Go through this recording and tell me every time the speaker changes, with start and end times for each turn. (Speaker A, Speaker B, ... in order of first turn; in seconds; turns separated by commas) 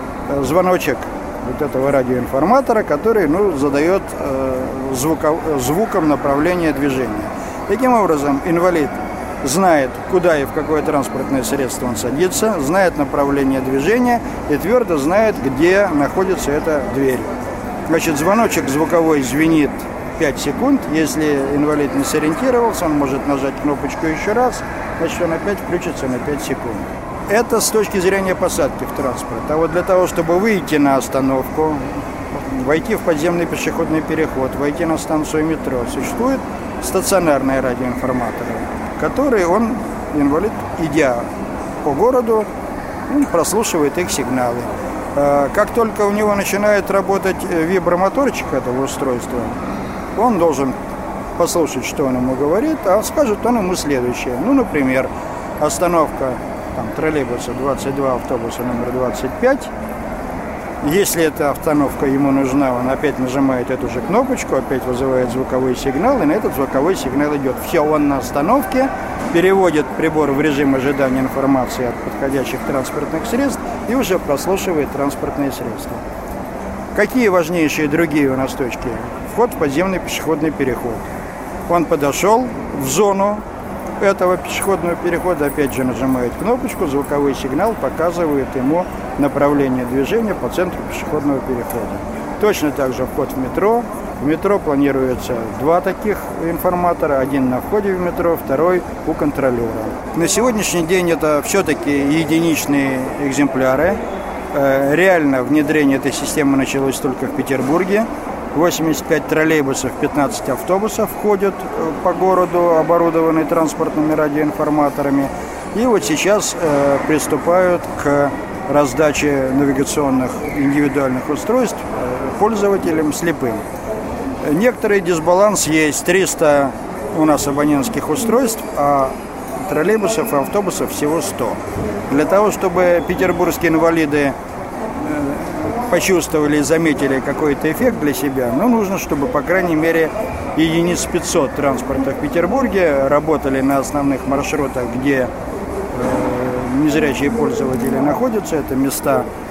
Speaker A: 0.3-17.3, Speaker A: 17.9-41.3, Speaker A: 41.8-42.5, Speaker A: 43.1-49.6, Speaker A: 50.1-50.8, Speaker A: 51.4-55.1, Speaker A: 55.6-59.7, Speaker A: 60.8-76.0, Speaker A: 77.0-81.1, Speaker A: 81.7-83.4, Speaker A: 84.0-104.0, Speaker A: 104.5-123.6, Speaker A: 124.5-129.1, Speaker A: 129.7-134.3, Speaker A: 135.1-145.3, Speaker A: 145.9-149.3